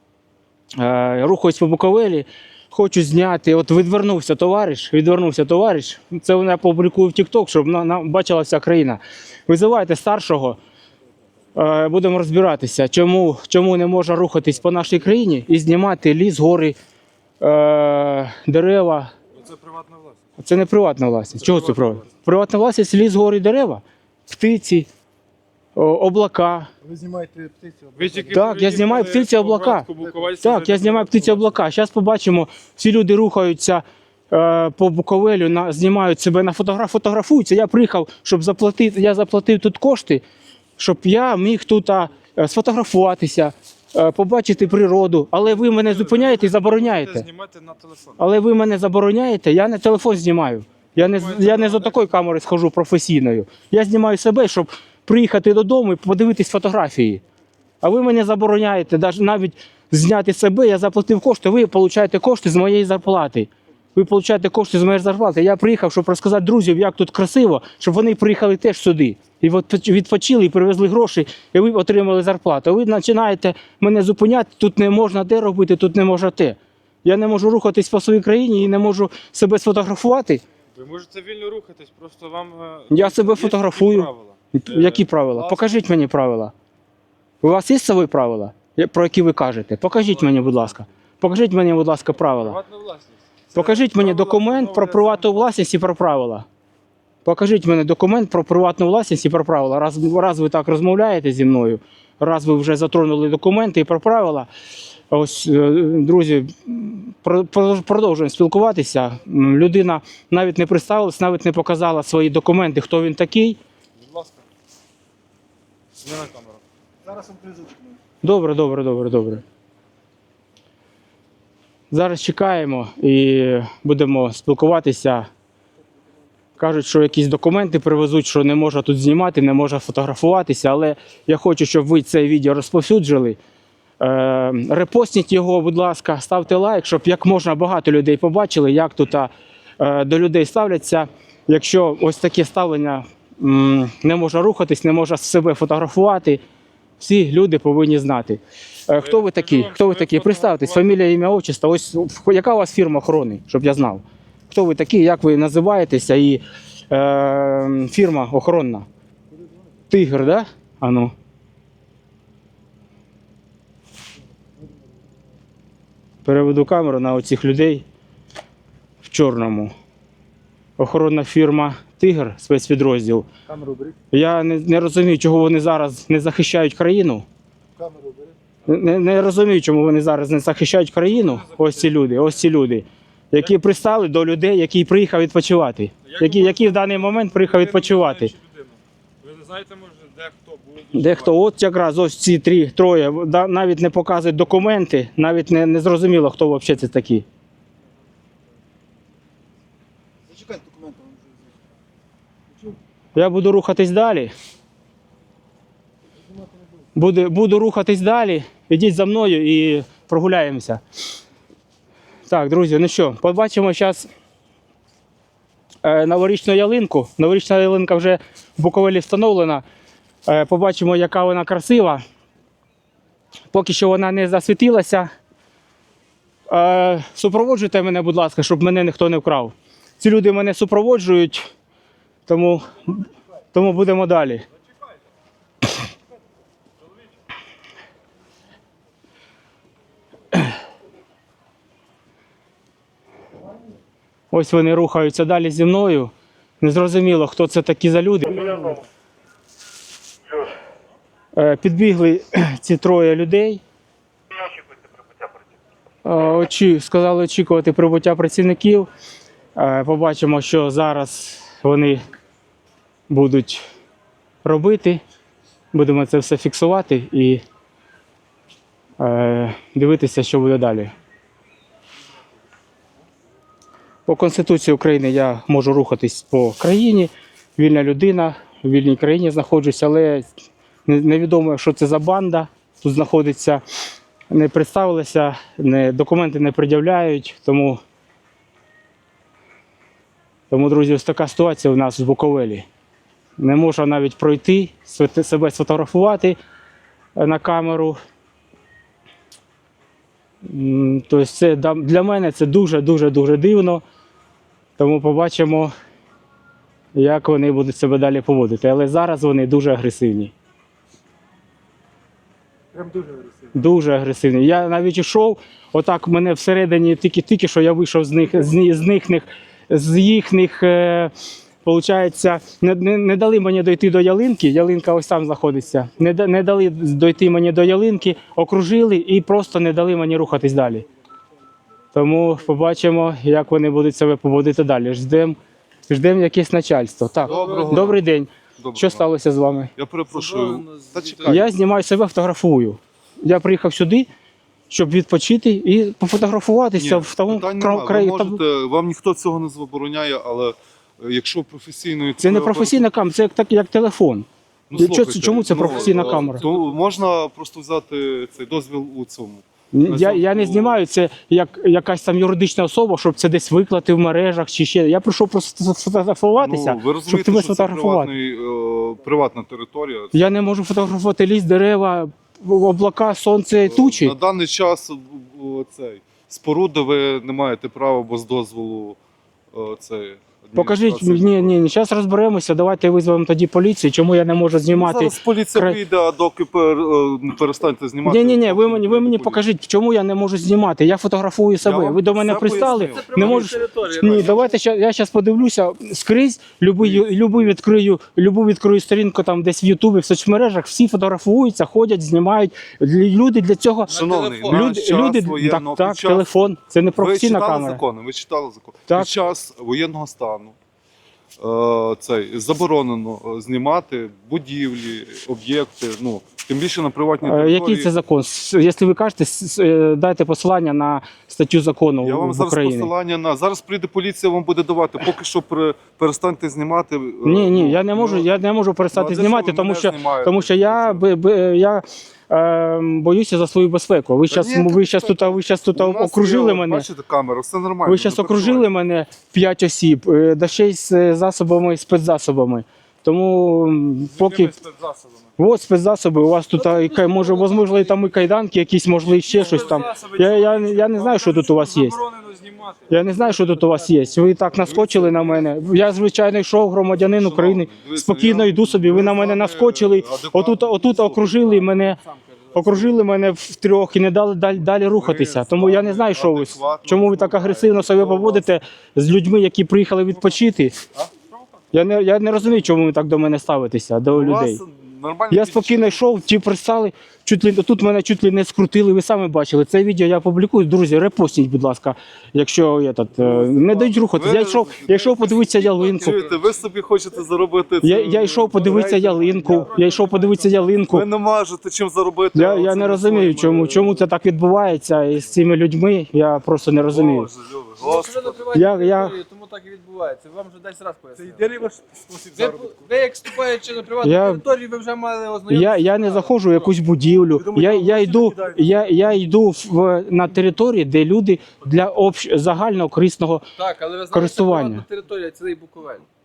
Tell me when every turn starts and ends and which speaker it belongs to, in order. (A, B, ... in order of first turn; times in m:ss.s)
0:00.8-0:10.6 A
0:11.6-0:16.8 A
0:17.4-0:19.1 A
0:19.3-0:20.2 B
0:20.4-0:24.9 A
0:21.4-0:22.1 B
0:25.8-0:26.7 A
0:26.8-0:28.5 C
0:28.0-0:31.5 B
0:28.3-0:29.9 A
0:29.9-0:30.4 C
0:30.4-0:40.2 A
0:40.8-0:47.3 A
0:45.4-0:48.3 B
0:48.2-0:57.2 A
0:51.0-0:52.1 B
0:57.8-1:20.4 A
1:20.8-1:25.8 B
1:22.9-1:26.5 A
1:27.4-1:32.6 A
1:30.0-1:30.8 B
1:32.4-1:35.5 B
1:33.5-1:36.5 A
1:37.2-1:44.5 A
1:45.1-1:53.6 A
1:54.0-1:54.4 B
1:56.0-1:56.6 B
1:57.0-1:57.9 C
1:58.2-1:59.4 A
2:01.9-2:05.3 A
2:06.6-2:13.4 A
2:14.0-2:26.4 A
2:27.0-2:38.9 A
2:28.9-2:31.1 B
2:39.9-2:41.1 A
2:46.2-2:47.8 A
2:49.0-2:49.7 A
2:50.8-2:53.3 A
2:53.5-2:54.0 C
2:54.1-2:57.3 A
2:57.8-2:58.4 C
2:58.7-3:08.3 A
3:01.0-3:02.2 B
3:06.0-3:11.4 B
3:11.0-3:17.2 A
3:20.3-3:21.3 C
3:23.2-3:24.3 A
3:27.0-3:30.8 A
3:32.3-3:34.1 A
3:35.8-3:39.6 A
3:40.3-3:42.0 A
3:43.5-3:45.1 A
3:46.5-3:51.5 A
3:52.3-3:54.4 A
4:04.3-4:08.7 A
4:11.4-4:13.6 A
4:16.0-4:18.9 A
4:19.6-4:22.0 A
4:23.1-4:23.6 A
4:24.4-4:25.0 A
4:25.7-4:27.4 A
4:29.0-4:30.9 A
4:34.1-4:40.3 A
4:40.9-4:43.6 A
4:44.3-4:47.8 A
4:50.5-4:52.7 A
4:53.4-4:56.4 A
4:57.2-4:58.0 A
5:00.5-5:03.8 A
5:04.8-5:05.7 A
5:07.0-5:10.3 A
5:12.7-5:13.5 C
5:13.5-5:21.1 A
5:21.6-5:30.9 A
5:31.9-5:35.4 A
5:35.9-5:39.7 A
5:37.2-5:38.0 D
5:37.3-5:37.8 E
5:38.6-5:39.1 D
5:39.8-5:41.5 D
5:40.1-5:41.4 E
5:41.3-5:44.1 A
5:44.7-5:48.4 A
5:46.8-5:52.9 D
5:52.2-5:56.4 A
5:54.7-6:00.8 D
5:55.5-5:56.8 E
5:59.7-6:08.1 A
6:06.4-6:10.3 D
6:10.1-6:14.2 A
6:13.6-6:19.0 D
6:19.5-6:21.7 D
6:20.6-6:25.8 A
6:24.6-6:29.4 D
6:28.0-6:44.0 A
6:31.6-6:34.5 D
6:32.3-6:34.6 E
6:36.8-6:37.1 D
6:43.9-6:44.7 E
6:43.9-6:46.3 D
6:44.5-6:47.8 A
6:47.0-6:50.6 D
6:51.4-6:57.9 D
6:57.2-7:02.9 A
7:02.0-7:08.3 D
7:07.2-7:16.9 A
7:08.9-7:11.1 D
7:14.3-7:18.7 D
7:17.8-7:24.5 A
7:24.1-7:25.3 B
7:25.4-7:32.0 A
7:26.5-7:28.4 E
7:29.1-7:33.1 B
7:32.9-7:42.0 A
7:34.6-7:35.6 D
7:37.1-7:41.4 D
7:41.4-7:43.0 E
7:42.5-7:50.8 A
7:44.9-7:48.5 D
7:51.2-7:51.5 B
7:51.7-7:54.6 A
7:54.1-7:56.1 D
7:55.3-8:06.2 A
8:03.2-8:09.8 D
8:07.8-8:11.0 A
8:08.6-8:10.8 B
8:10.9-8:14.1 D
8:12.3-8:17.3 A
8:16.9-8:18.5 D
8:17.8-8:21.6 E
8:18.5-8:19.2 A
8:21.2-8:22.8 C
8:22.3-8:26.7 E
8:24.0-8:24.4 A
8:25.5-8:33.4 A
8:27.3-8:28.8 C
8:33.6-8:36.1 E
8:34.1-8:34.8 A